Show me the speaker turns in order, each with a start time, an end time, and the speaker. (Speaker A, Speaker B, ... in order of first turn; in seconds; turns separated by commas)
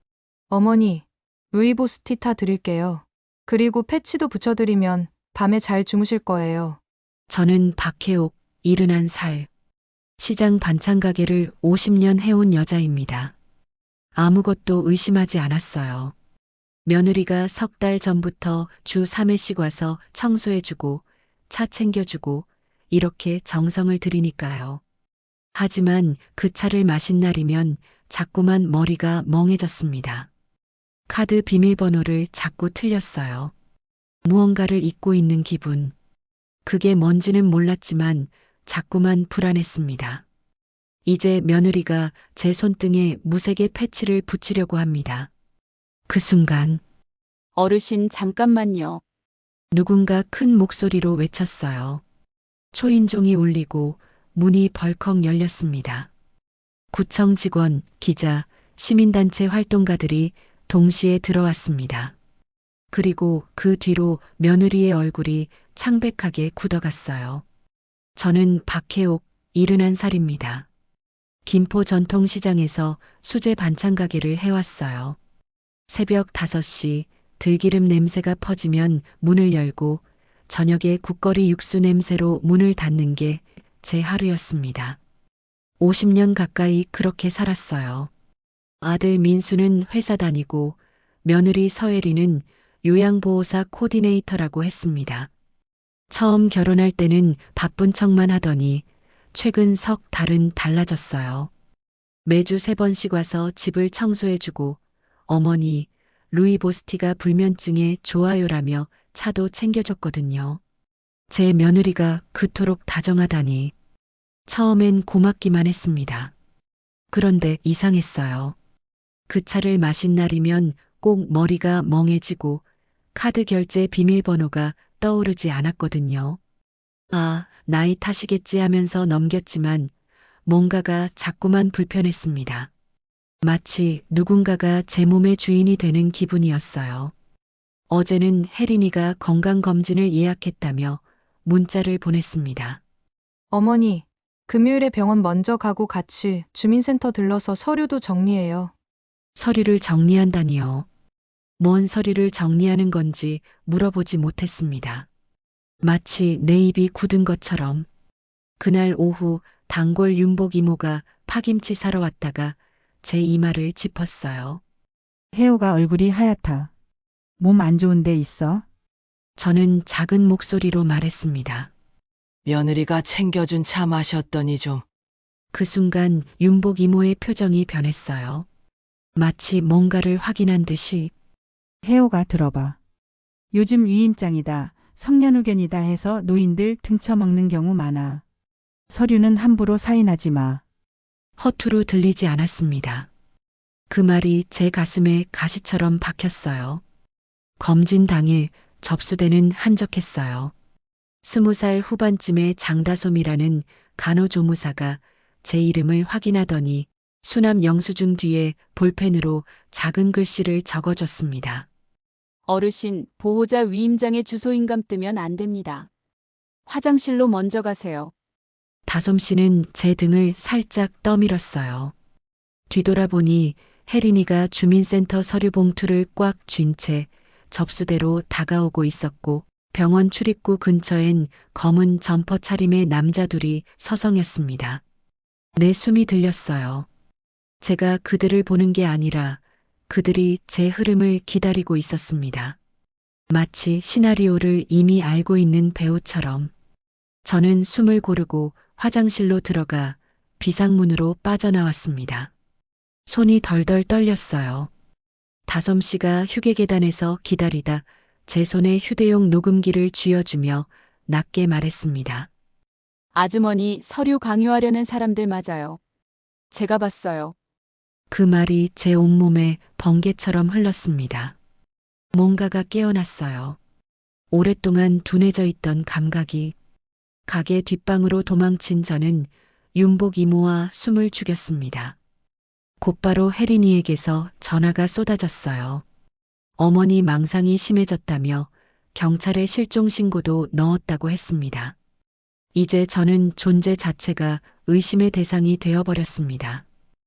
Speaker A: 0.5-6.8, Speaker B: 7.3-9.5, Speaker B: 10.2-13.3, Speaker B: 14.1-16.1, Speaker B: 16.9-24.8, Speaker B: 25.5-30.3, Speaker B: 31.1-33.5, Speaker B: 34.2-35.9, Speaker B: 36.6-40.2, Speaker B: 41.0-45.3, Speaker B: 46.1-46.8, Speaker C: 47.5-49.0, Speaker B: 49.7-52.0, Speaker B: 52.7-56.1, Speaker B: 56.9-62.1, Speaker B: 62.9-67.4, Speaker B: 68.2-70.7, Speaker B: 71.5-75.2, Speaker B: 75.9-85.0, Speaker B: 85.8-88.1, Speaker B: 88.8-95.3, Speaker B: 96.1-101.5, Speaker B: 102.2-110.6, Speaker B: 111.3-113.7, Speaker B: 114.5-116.3, Speaker B: 117.1-118.5, Speaker B: 119.3-122.6, Speaker B: 123.1-126.4, Speaker B: 127.1-129.9, Speaker B: 130.4-132.7, Speaker B: 133.4-137.1, Speaker B: 137.9-142.8, Speaker A: 143.5-148.7, Speaker B: 149.3-150.8, Speaker B: 151.6-155.1, Speaker B: 155.8-157.9, Speaker B: 158.6-164.6, Speaker D: 165.3-166.7, Speaker D: 167.4-168.6, Speaker B: 169.4-171.7, Speaker E: 172.4-174.8, Speaker B: 175.5-178.4, Speaker B: 179.2-181.1, Speaker D: 181.8-182.8, Speaker D: 183.5-188.2, Speaker D: 188.9-190.6, Speaker B: 191.4-193.1, Speaker B: 193.9-196.8, Speaker B: 197.6-200.5, Speaker B: 201.2-211.7, Speaker C: 212.5-215.9, Speaker C: 216.7-218.1, Speaker B: 218.9-221.9, Speaker B: 222.7-234.8, Speaker B: 235.6-236.9, Speaker B: 237.6-242.6, Speaker B: 243.3-246.5, Speaker B: 247.2-252.3, Speaker B: 253.1-254.7, Speaker B: 255.5-262.3, Speaker C: 263.1-265.8, Speaker C: 266.5-267.3, Speaker B: 268.1-271.4, Speaker B: 272.1-273.6, Speaker B: 274.3-276.5, Speaker B: 277.3-282.0, Speaker B: 282.8-285.8, Speaker B: 286.6-291.8, Speaker B: 292.5-296.6